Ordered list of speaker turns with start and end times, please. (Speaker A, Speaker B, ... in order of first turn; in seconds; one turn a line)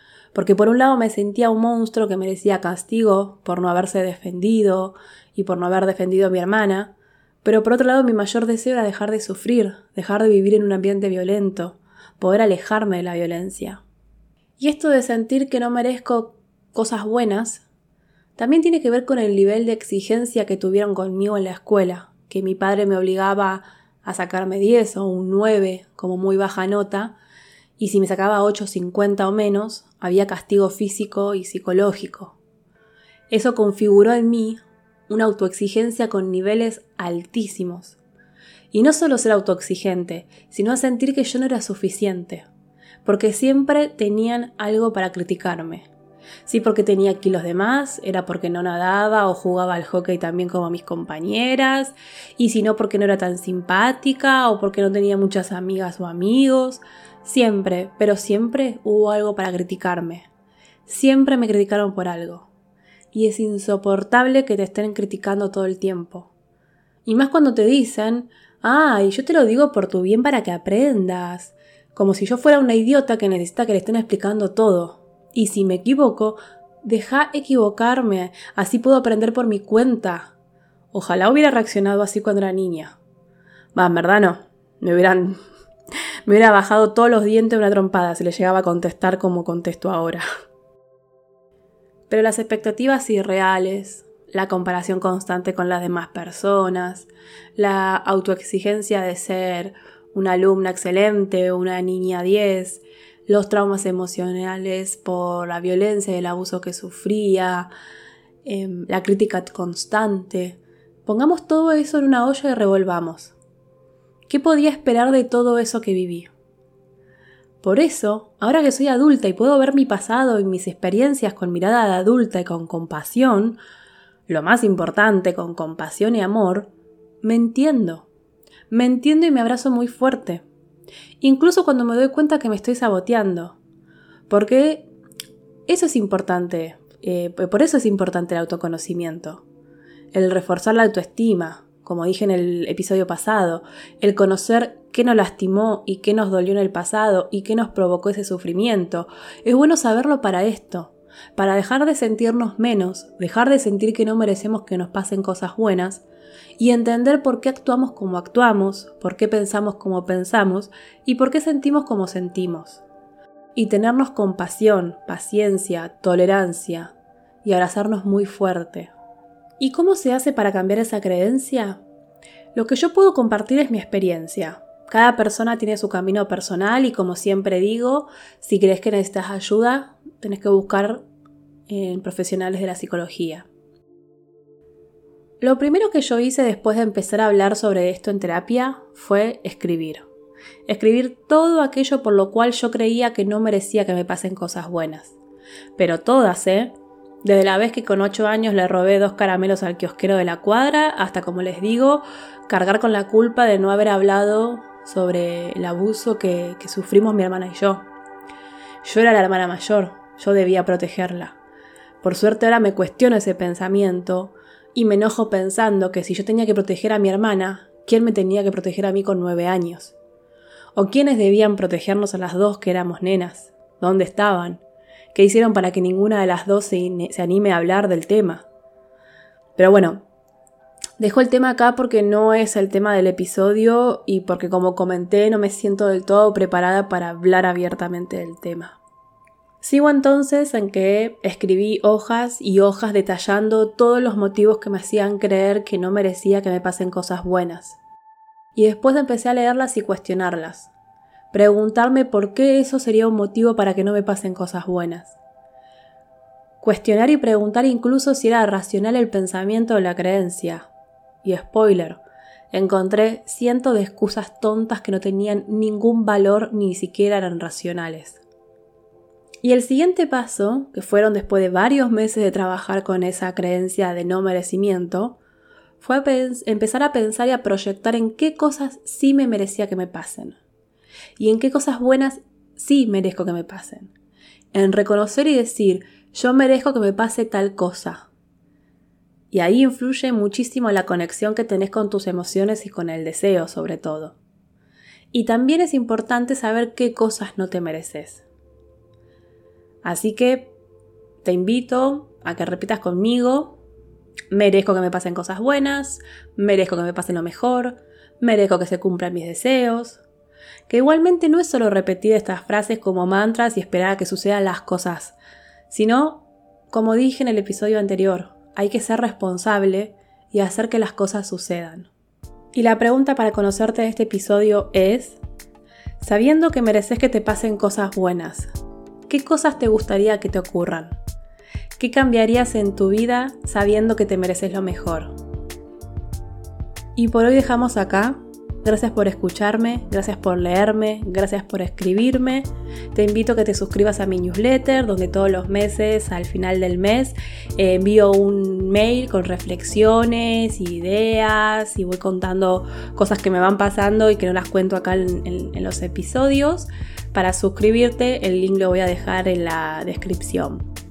Speaker A: 0.3-13.8
Speaker A: 14.6-17.6
Speaker A: 18.4-27.2
Speaker A: 27.8-32.4
Speaker A: 33.3-38.0
Speaker A: 38.7-42.5
Speaker A: 43.0-45.9
Speaker A: 46.5-60.3
Speaker A: 60.9-62.5
Speaker A: 63.1-66.3
Speaker A: 67.0-80.3
Speaker A: 80.9-83.0
Speaker A: 83.8-85.4
Speaker A: 86.3-90.2
Speaker A: 92.1-107.7
Speaker A: 108.5-113.4
Speaker A: 114.3-116.3
Speaker A: 117.6-123.6
Speaker A: 124.3-126.7
Speaker A: 127.2-128.1
Speaker A: 128.7-130.4
Speaker A: 131.2-133.6
Speaker A: 134.3-134.9
Speaker A: 135.7-139.5
Speaker A: 140.1-156.0
Speaker A: 156.6-162.8
Speaker A: 163.6-168.9
Speaker A: 169.6-171.8
Speaker A: 172.6-181.1
Speaker A: 181.7-183.5
Speaker A: 185.4-190.1
Speaker A: 190.7-195.2
Speaker A: 195.8-207.9
Speaker A: 208.8-211.4
Speaker A: 212.0-220.0
Speaker A: 220.8-224.6
Speaker A: 225.1-228.5
Speaker A: 229.6-230.1
Speaker A: 231.0-238.8
Speaker A: 239.6-247.8
Speaker A: 248.6-250.7
Speaker A: 251.3-255.2
Speaker A: 256.6-260.7
Speaker A: 261.2-268.2
Speaker A: 269.4-275.2
Speaker A: 275.8-280.4
Speaker A: 281.2-283.9
Speaker A: 284.5-288.1
Speaker A: 289.3-294.2
Speaker A: 295.1-298.3
Speaker A: 299.8-300.5
Speaker A: 301.2-303.6
Speaker A: 304.3-310.0
Speaker A: 310.7-315.2
Speaker A: 315.7-321.9
Speaker A: 322.5-325.2
Speaker A: 326.0-328.5
Speaker A: 329.1-331.0
Speaker A: 331.8-335.2
Speaker A: 337.0-360.7